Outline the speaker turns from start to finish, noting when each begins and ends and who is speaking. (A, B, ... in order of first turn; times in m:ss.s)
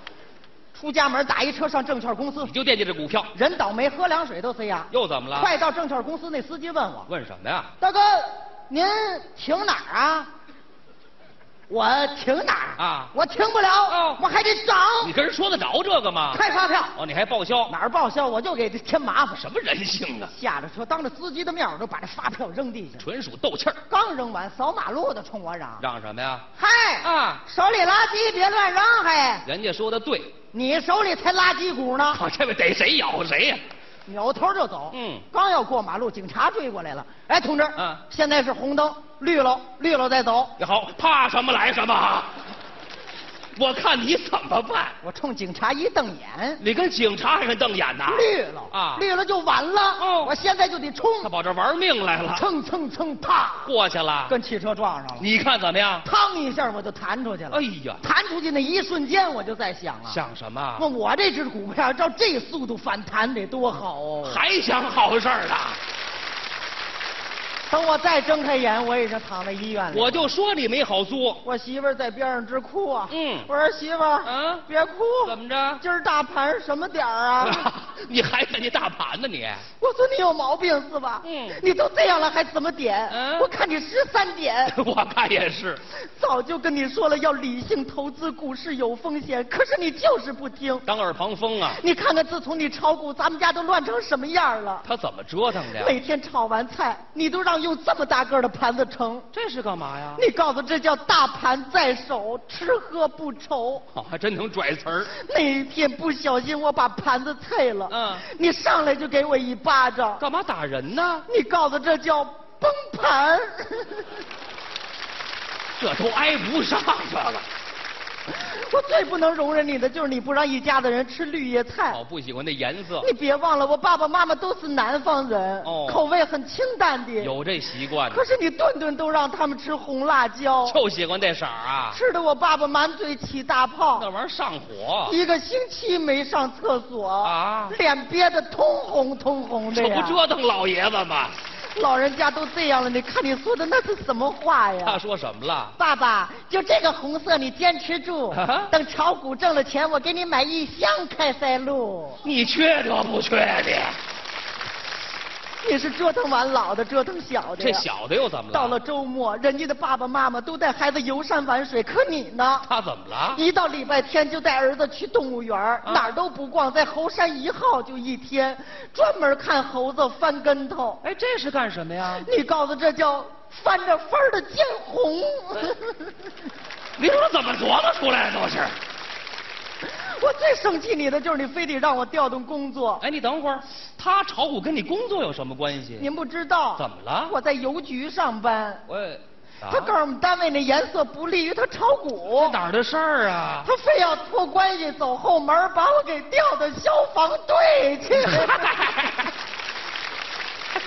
0:00.7-0:02.5 A
0:02.4-0:03.3 B
0:03.3-0:07.1 A
0:04.9-0:05.5 B
0:07.1-0:07.7 B
0:07.8-0:10.3 A
0:11.7-0:15.1 A
0:12.8-0:13.1 B
0:13.9-0:14.2 B
0:15.0-0:17.7 B
0:16.3-0:17.0 A
0:17.7-0:19.4 A
0:19.4-0:20.3 B
0:20.3-0:23.0 A
0:23.0-0:23.8 B
0:23.9-0:25.8 A
0:25.8-0:26.4 B
0:26.6-0:29.4 A
0:27.0-0:27.4 B
0:29.4-0:30.3 B
0:30.5-0:32.2 A
0:32.1-0:33.6 B
0:34.0-0:40.5 A
0:34.9-0:35.2 B
0:37.8-0:38.0 B
0:40.6-0:42.4 B
0:43.5-0:45.0 B
0:45.0-0:46.6 A
0:46.6-0:49.0 B
0:48.1-0:51.3 A
0:50.0-0:50.3 B
0:51.2-0:52.4 B
0:52.3-0:53.7 A
0:53.6-0:54.3 B
0:54.3-0:55.3 A
0:55.2-0:56.0 B
0:56.0-1:00.2 A
0:57.5-0:58.0 B
1:00.0-1:00.8 B
1:00.8-1:04.4 A
1:04.2-1:05.8 B
1:07.7-1:10.3 A
1:09.9-1:11.4 B
1:11.4-1:17.7 A
1:13.1-1:13.5 B
1:14.2-1:14.6 B
1:15.2-1:15.8 B
1:17.4-1:19.6 B
1:19.8-1:24.8 A
1:21.2-1:21.6 B
1:23.1-1:23.5 B
1:24.6-1:25.8 B
1:25.9-1:30.8 A
1:30.8-1:31.8 B
1:31.7-1:34.8 A
1:34.8-1:36.0 B
1:35.7-1:39.3 A
1:39.3-1:40.2 B
1:40.1-1:43.8 A
1:43.9-1:45.1 B
1:45.1-1:50.2 A
1:47.9-1:48.2 B
1:50.2-1:51.2 B
1:51.3-1:54.1 A
1:55.8-1:57.4 B
1:58.3-2:02.0 A
2:01.9-2:03.1 B
2:03.0-2:07.4 A
2:05.6-2:06.0 B
2:07.2-2:08.2 B
2:08.1-2:10.8 A
2:10.6-2:12.0 B
2:11.9-2:14.1 A
2:13.9-2:15.1 B
2:15.0-2:20.2 A
2:17.2-2:17.8 B
2:19.7-2:21.4 B
2:21.7-2:25.0 A
2:24.8-2:25.7 B
2:25.8-2:32.2 A
2:28.3-2:28.7 B
2:32.2-2:34.0 B
2:35.6-2:37.8 A
2:37.6-2:38.8 B
2:38.5-2:42.6 A
2:42.6-2:43.4 B
2:43.3-2:51.0 A
2:45.8-2:46.1 B
2:51.0-2:52.2 B
2:52.1-2:56.1 A
2:57.0-2:58.8 B
2:59.8-3:03.0 A
3:03.0-3:06.1 B
3:06.0-3:08.8 A
3:06.8-3:07.3 B
3:08.9-3:09.9 B
3:09.7-3:12.6 A
3:12.3-3:13.7 B
3:13.6-3:18.6 A
3:18.1-3:19.3 B